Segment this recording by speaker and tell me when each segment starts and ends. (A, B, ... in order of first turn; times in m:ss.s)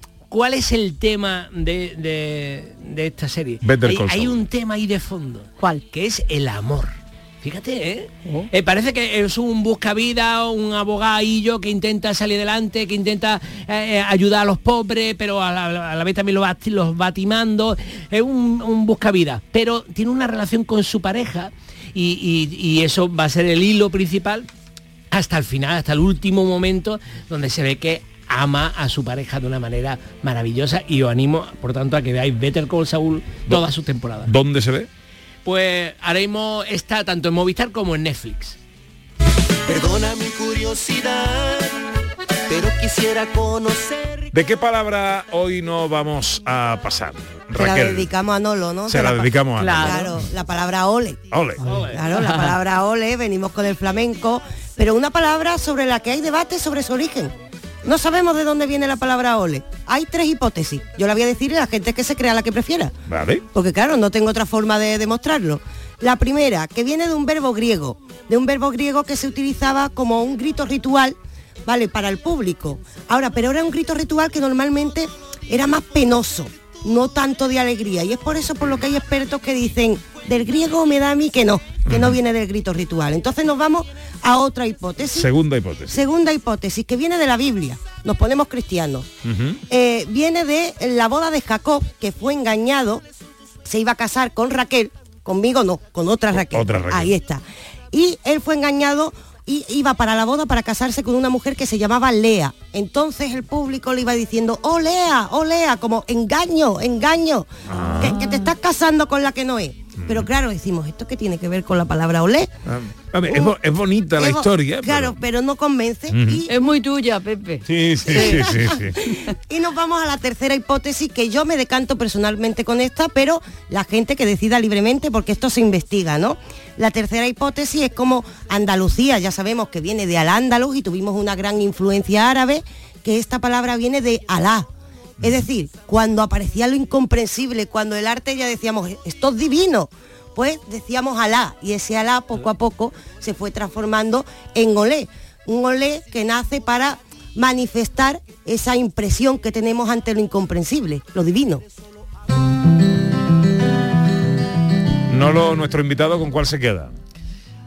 0:00.3-0:06.9 A
0:03.6-0:04.4 B
0:05.6-0:05.8 C
0:07.4-0:24.5 A
0:25.1-0:34.3 A
0:34.3-0:34.9 B
0:35.4-0:38.6 A
0:39.7-0:41.8 D
0:42.5-0:44.3 D
0:44.3-0:48.1 B
0:47.5-0:57.3 E
0:48.9-0:50.1 B
0:49.6-0:50.1 C
0:51.3-0:51.6 B
0:51.8-0:52.5 C
0:57.8-1:02.9 E
1:03.1-1:03.4 B
1:03.5-1:25.3 E
1:21.9-1:22.2 B
1:25.1-1:26.0 B
1:25.9-1:29.1 E
1:29.2-1:29.6 B
1:29.7-1:33.0 E
1:33.6-1:52.5 E
1:36.3-1:37.1 B
1:47.7-1:48.2 B
1:50.0-1:50.3 B
1:52.7-1:55.2 B
1:53.3-1:53.6 E
1:54.2-1:56.5 E
1:56.1-1:56.4 B
1:56.5-1:58.4 C
1:57.7-1:59.0 B
1:58.0-2:14.7 E
1:59.0-1:59.3 C
2:15.2-2:31.6 E
2:35.1-2:37.0 B